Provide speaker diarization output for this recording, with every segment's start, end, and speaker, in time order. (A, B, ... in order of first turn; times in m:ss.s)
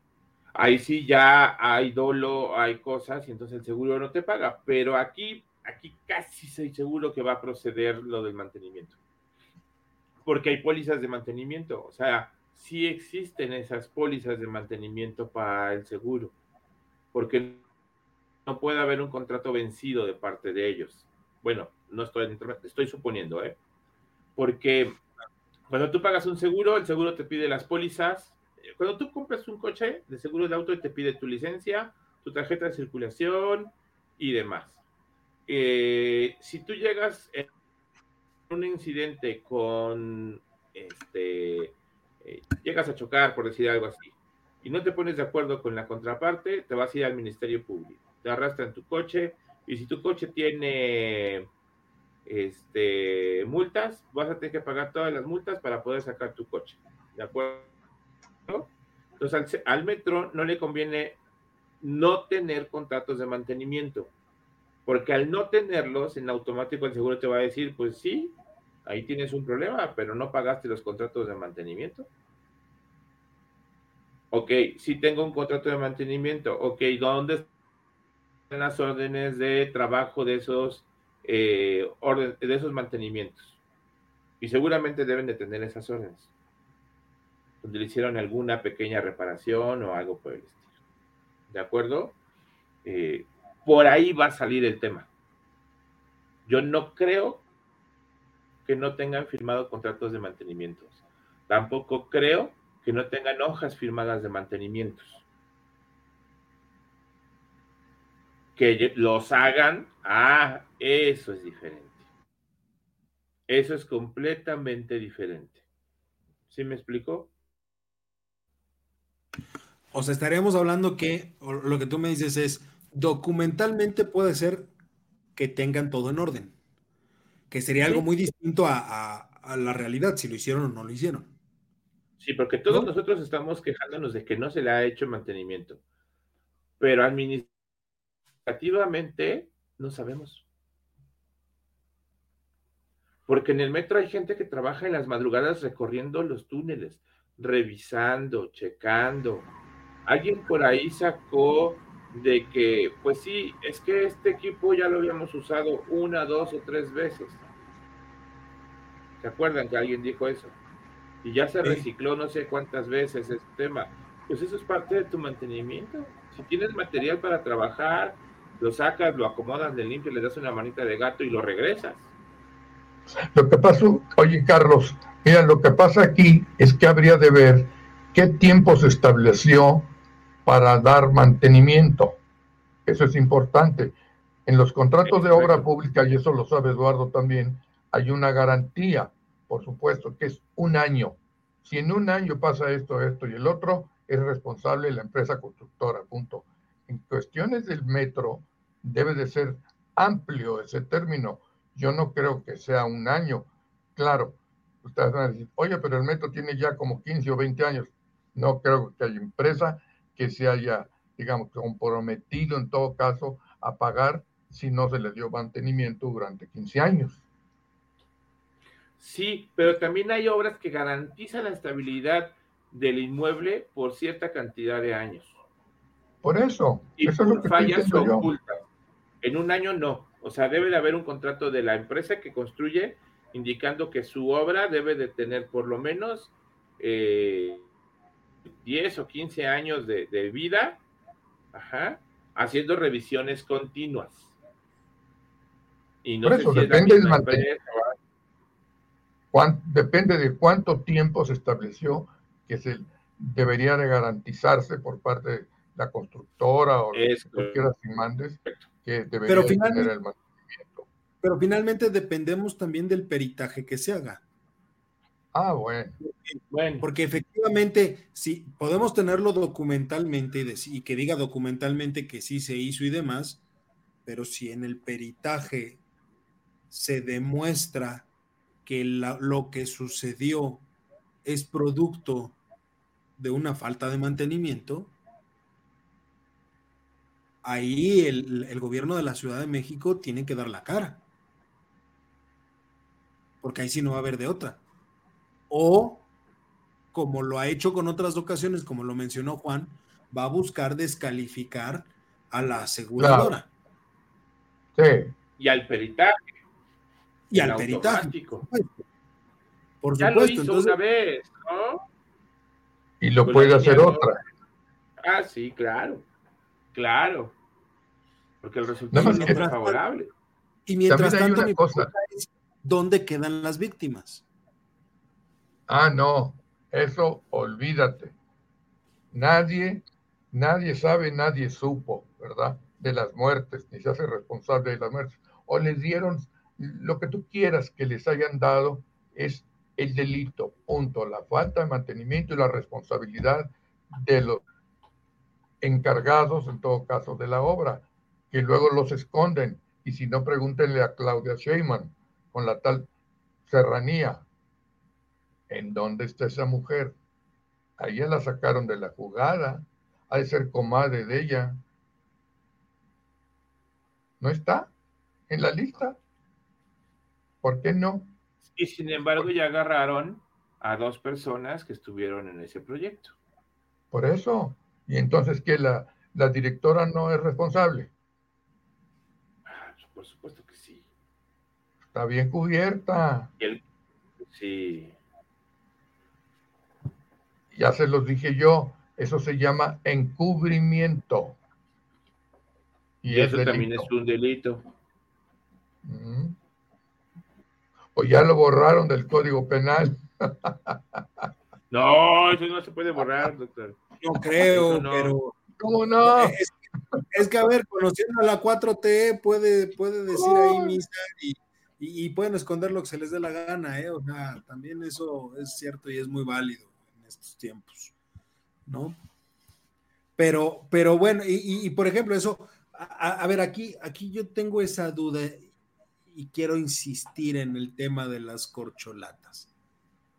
0:00.6-0:09.0 A
0:10.2-0:16.3 A
0:17.1-0:17.6 A
0:18.4-0:23.6 A
0:24.4-0:25.0 A
0:25.7-0:34.8 A
0:35.5-0:37.4 A
0:38.5-0:51.5 A
0:52.3-0:57.7 A
0:58.5-1:01.2 A
1:01.8-1:04.1 A
1:04.9-1:12.1 A
1:14.3-1:17.5 A
1:18.5-1:23.6 A
1:24.4-1:26.3 A
1:27.6-1:30.6 A
1:31.5-1:32.2 A
1:32.8-1:35.1 A
1:36.4-1:37.4 A
1:38.7-1:45.2 A
1:48.6-1:52.0 A
1:53.5-1:55.6 A
1:56.5-1:57.3 A
1:59.9-2:04.7 B
2:05.4-2:06.6 B
2:07.5-2:11.3 B
2:12.2-2:15.8 A
2:16.8-2:17.5 A
2:18.4-2:20.4 A
2:23.3-2:29.5 A
2:30.0-2:37.4 A
2:39.2-2:40.6 A
2:41.2-2:52.1 A
2:53.3-2:59.9 C
3:00.4-3:02.2 C
3:02.9-3:04.0 C
3:04.4-3:37.2 C
3:05.0-3:05.7 A
3:39.0-3:45.4 A
3:46.2-3:48.2 C
3:47.0-3:48.6 A
3:49.2-3:57.7 A
3:58.6-4:00.8 A
4:01.5-4:04.3 A
4:06.0-4:08.0 A
4:06.2-4:07.4 C
4:09.3-4:20.9 C
4:16.9-4:17.7 A
4:19.3-4:19.9 B
4:21.2-4:24.2 B
4:25.3-4:26.0 C
4:26.0-4:33.4 B
4:26.5-4:26.9 A
4:34.0-4:35.8 B
4:36.7-4:38.1 B
4:38.6-4:40.6 B
4:41.2-4:42.4 B
4:43.2-4:45.0 B
4:47.4-4:51.0 B
4:53.4-4:54.6 B
4:55.5-4:56.0 B
4:56.9-5:03.5 B
5:03.0-5:03.4 C
5:04.8-5:05.1 C
5:05.4-5:06.4 A
5:07.3-5:08.8 B
5:07.3-5:08.4 A
5:09.8-5:10.8 B
5:10.0-5:11.8 A
5:13.0-5:14.2 C
5:13.2-5:14.1 A
5:15.0-5:16.0 A
5:16.7-5:17.3 A
5:18.4-5:20.1 A
5:18.9-5:19.5 C
5:18.9-5:19.8 B
5:20.7-5:24.2 B
5:20.9-5:21.9 C
5:25.7-5:28.1 C
5:29.1-5:44.4 C
5:45.6-5:52.9 C
5:53.4-5:54.2 C
5:55.5-5:57.0 C
5:57.8-6:01.6 C
6:04.2-6:04.7 C
6:05.3-6:06.0 C
6:07.4-6:08.1 C
6:08.6-6:13.1 A
6:13.9-6:17.9 C
6:19.4-6:20.8 A
6:21.9-6:23.3 C
6:24.3-6:25.0 A
6:27.5-6:31.4 C
6:33.0-6:33.9 C
6:33.1-6:34.7 A
6:35.8-6:36.4 C
6:38.0-6:41.2 C
6:41.7-6:43.8 A
6:44.0-6:45.4 B
6:44.4-6:45.1 A
6:45.6-6:46.4 C
6:46.0-6:57.9 B
6:50.1-6:50.7 C
6:58.7-6:59.0 B
7:00.2-7:05.5 B
7:06.1-7:09.5 B